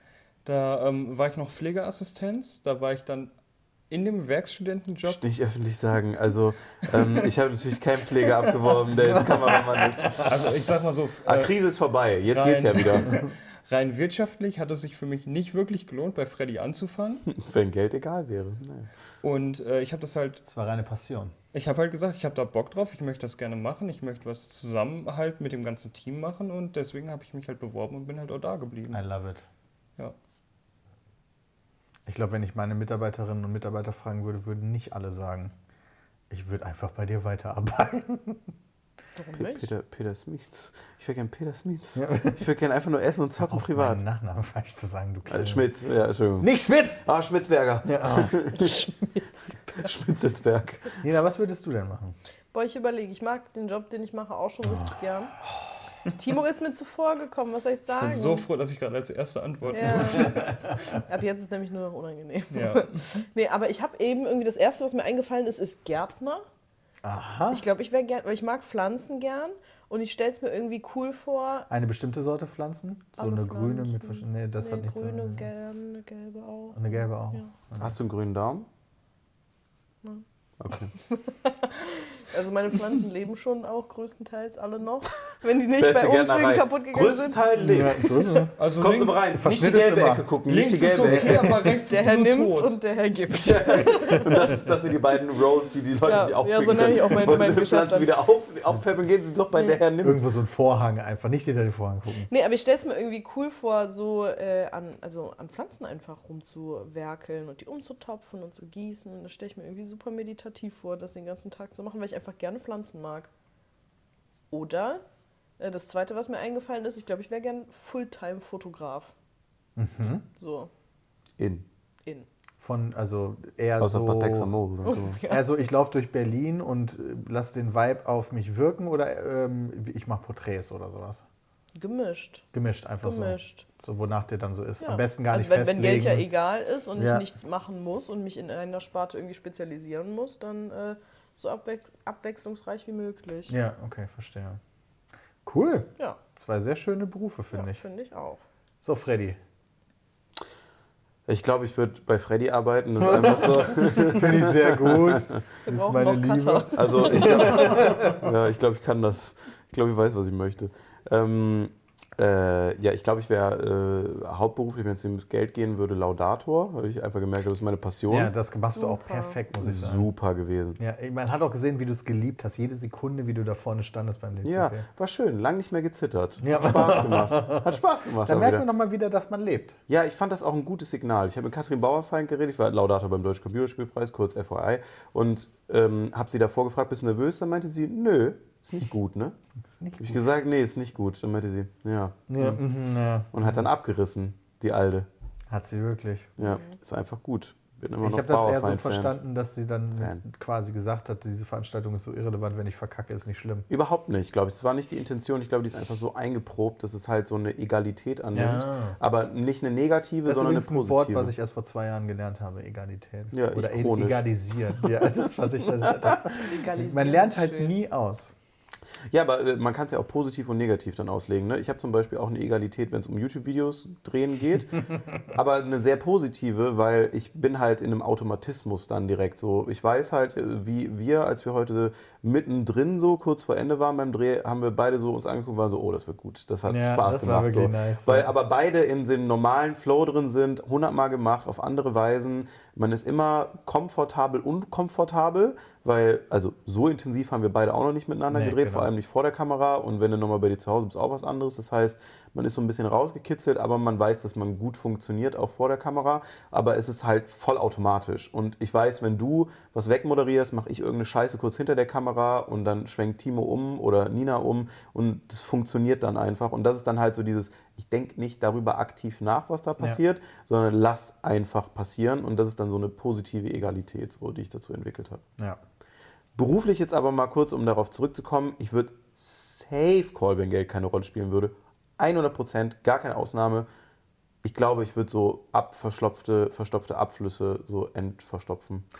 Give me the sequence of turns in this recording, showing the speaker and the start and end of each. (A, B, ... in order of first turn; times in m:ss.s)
0:00.4-0:03.3 A
0:03.9-0:05.2 A
0:05.0-0:10.5 B
0:09.0-0:10.3 C
0:10.2-0:11.5 A
0:11.2-0:13.1 B
0:12.3-0:17.3 A
0:17.3-0:18.9 B
0:19.2-0:20.4 A
0:20.5-0:21.3 C
0:21.5-0:29.0 A
0:28.9-0:29.4 C
0:32.0-0:35.5 C
0:36.3-0:38.5 C
0:39.2-0:39.7 D
0:39.4-0:44.0 B
0:42.0-0:42.4 C
0:43.4-0:45.7 C
0:45.3-0:46.5 B
0:46.4-0:47.0 C
0:47.0-0:48.9 B
0:47.8-0:48.7 C
0:49.7-0:51.0 B
0:51.0-0:52.1 C
0:52.5-0:55.3 D
0:56.1-0:58.4 D
0:58.0-1:00.5 A
0:59.7-1:06.4 D
1:00.2-1:00.7 C
1:02.5-1:03.2 A
1:07.0-1:07.6 C
1:07.5-1:11.7 D
1:11.7-1:15.5 C
1:13.2-1:17.5 D
1:16.7-1:17.9 C
1:17.8-1:18.7 B
1:20.6-1:20.9 B
1:21.0-1:27.4 D
1:25.7-1:31.6 B
1:27.6-1:28.5 C
1:28.6-1:29.4 A
1:29.3-1:30.3 C
1:30.4-1:32.8 A
1:31.0-1:31.7 C
1:31.8-1:34.7 D
1:33.3-1:40.2 B
1:36.0-1:38.1 D
1:39.5-1:39.8 D
1:40.0-1:42.3 C
1:42.3-1:53.3 D
1:54.5-1:55.0 D
1:55.6-1:59.1 D
1:59.8-2:00.2 C
2:00.3-2:00.7 D
2:01.4-2:01.6 B
2:02.6-2:04.5 C
2:03.8-2:05.2 B
2:04.8-2:05.5 D
2:05.2-2:11.2 C
2:11.8-2:12.4 D
2:12.5-2:16.2 C
2:13.0-2:13.6 D
2:14.8-2:23.5 D
2:17.0-2:17.3 C
2:23.5-2:24.6 C
2:25.4-2:27.8 C
2:27.5-2:28.4 D
2:28.8-2:29.4 C
2:31.3-2:35.4 B
2:33.0-2:38.3 C
2:35.6-2:37.9 D
2:36.7-2:48.3 B
2:48.1-2:50.1 C
2:48.8-2:49.4 D
2:49.6-2:50.8 B
2:50.8-2:54.8 C
2:54.4-2:58.6 B
2:56.4-2:59.8 C
2:59.9-3:09.3 B
3:09.6-3:10.2 C
3:10.0-3:12.6 B
3:12.3-3:13.6 C
3:13.3-3:15.1 B
3:15.5-3:16.4 C
3:16.4-3:19.1 B
3:18.0-3:23.6 C
3:23.7-3:31.3 B
3:28.3-3:29.0 C
3:30.2-3:38.3 C
3:33.3-3:34.2 B
3:34.8-3:35.2 B
3:35.7-3:36.3 B
3:36.4-3:37.8 D
3:39.1-4:35.2 B
3:56.7-3:58.3 C
4:08.3-4:08.9 C
4:36.4-4:43.6 B
4:44.4-4:48.8 B